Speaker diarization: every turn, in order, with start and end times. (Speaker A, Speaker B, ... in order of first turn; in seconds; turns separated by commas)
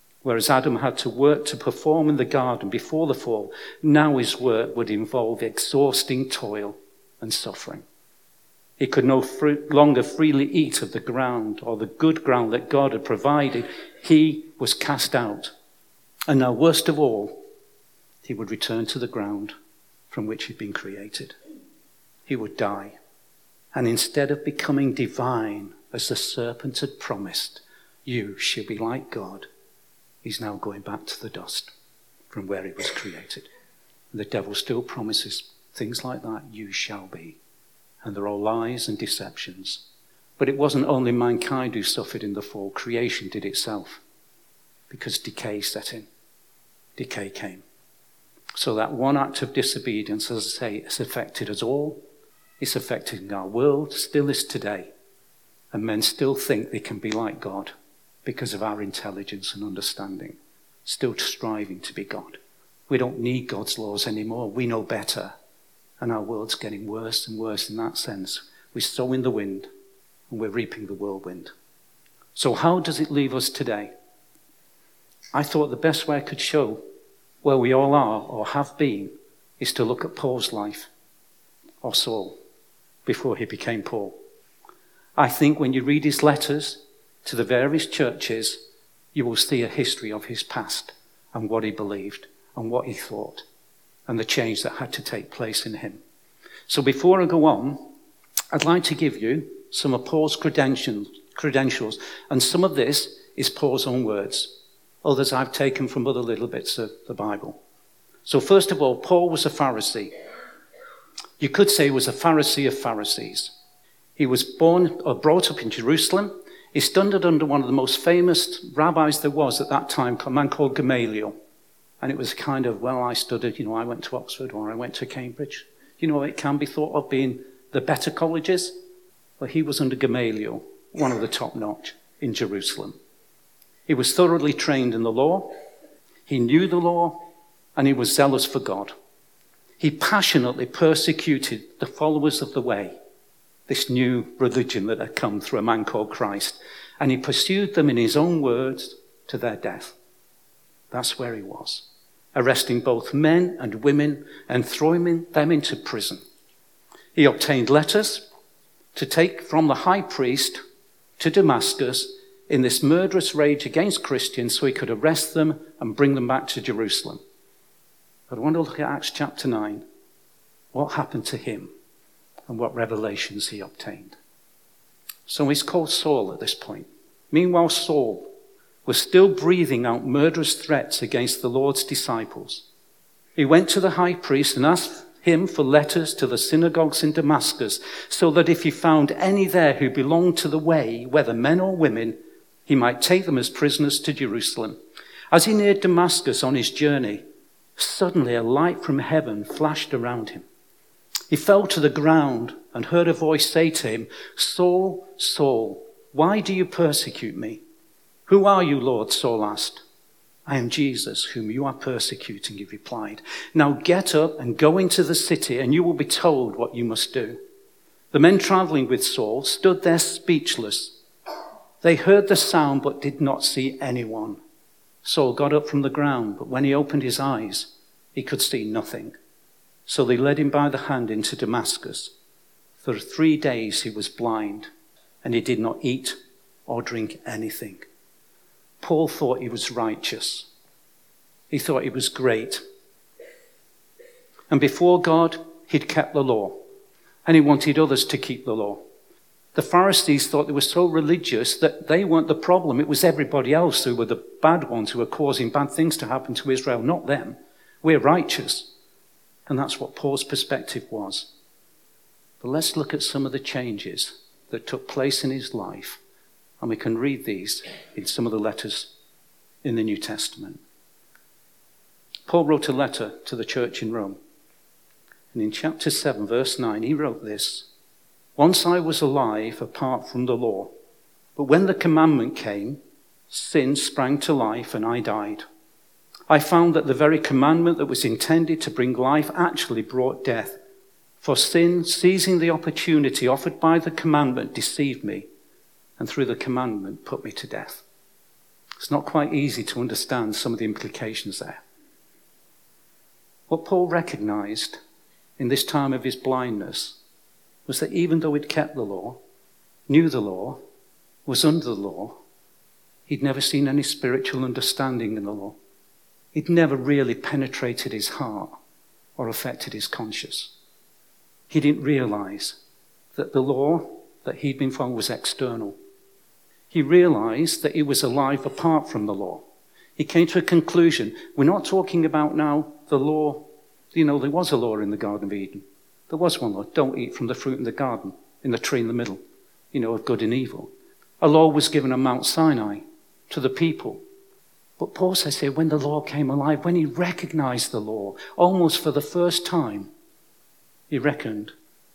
Speaker A: 0.2-7.8, Speaker A: 8.8-15.5, Speaker A: 16.3-17.4, Speaker A: 18.2-19.5, Speaker A: 20.1-21.3, Speaker A: 22.3-23.0, Speaker A: 23.7-29.5, Speaker A: 30.2-31.7, Speaker A: 32.3-33.5, Speaker A: 34.1-37.4, Speaker A: 38.0-39.8, Speaker A: 40.4-44.0, Speaker A: 44.9-46.1, Speaker A: 47.0-47.6, Speaker A: 48.5-52.0, Speaker A: 52.6-54.9, Speaker A: 55.7-57.7, Speaker A: 58.2-62.4, Speaker A: 62.9-65.3, Speaker A: 66.0-69.7, Speaker A: 70.3-71.5, Speaker A: 72.3-73.9, Speaker A: 75.3-76.8, Speaker A: 77.4-80.9, Speaker A: 81.8-82.4, Speaker A: 83.0-84.2, Speaker A: 85.2-88.6, Speaker A: 89.1-93.4, Speaker A: 94.1-96.0, Speaker A: 96.7-97.9, Speaker A: 98.5-107.6, Speaker A: 108.2-110.1, Speaker A: 111.4-113.5, Speaker A: 114.2-121.3, Speaker A: 122.0-128.7, Speaker A: 129.4-132.9, Speaker A: 133.9-135.5, Speaker A: 136.3-137.2, Speaker A: 137.8-138.9, Speaker A: 139.8-143.0, Speaker A: 143.7-149.9, Speaker A: 150.9-156.2, Speaker A: 157.2-158.2, Speaker A: 158.9-160.6, Speaker A: 161.2-167.2, Speaker A: 168.3-169.8, Speaker A: 170.7-171.7, Speaker A: 172.5-174.2, Speaker A: 175.3-178.3, Speaker A: 178.8-182.7, Speaker A: 183.4-194.8, Speaker A: 195.3-197.2, Speaker A: 197.8-200.4, Speaker A: 201.3-207.6, Speaker A: 208.3-209.8, Speaker A: 210.5-217.4, Speaker A: 218.1-221.0, Speaker A: 221.8-224.4, Speaker A: 225.0-229.1, Speaker A: 229.9-232.1, Speaker A: 232.8-234.7, Speaker A: 235.2-237.9, Speaker A: 238.8-240.5, Speaker A: 241.5-242.6, Speaker A: 244.5-246.6, Speaker A: 247.2-248.8, Speaker A: 249.5-258.7, Speaker A: 259.5-261.3, Speaker A: 262.4-266.0, Speaker A: 266.6-268.9, Speaker A: 269.6-270.6, Speaker A: 272.3-274.2, Speaker A: 275.3-277.7, Speaker A: 278.4-280.7, Speaker A: 281.4-282.8, Speaker A: 283.3-285.4, Speaker A: 286.3-290.6, Speaker A: 291.2-295.3, Speaker A: 296.0-297.8, Speaker A: 298.8-301.6, Speaker A: 303.5-304.8, Speaker A: 305.4-307.0, Speaker A: 307.7-309.2, Speaker A: 309.9-310.6, Speaker A: 311.2-312.2, Speaker A: 313.1-315.6, Speaker A: 316.3-318.5, Speaker A: 319.2-320.5, Speaker A: 321.5-322.6, Speaker A: 323.1-325.8, Speaker A: 326.7-329.4, Speaker A: 330.0-339.2, Speaker A: 339.7-344.0, Speaker A: 344.8-349.9, Speaker A: 350.9-351.5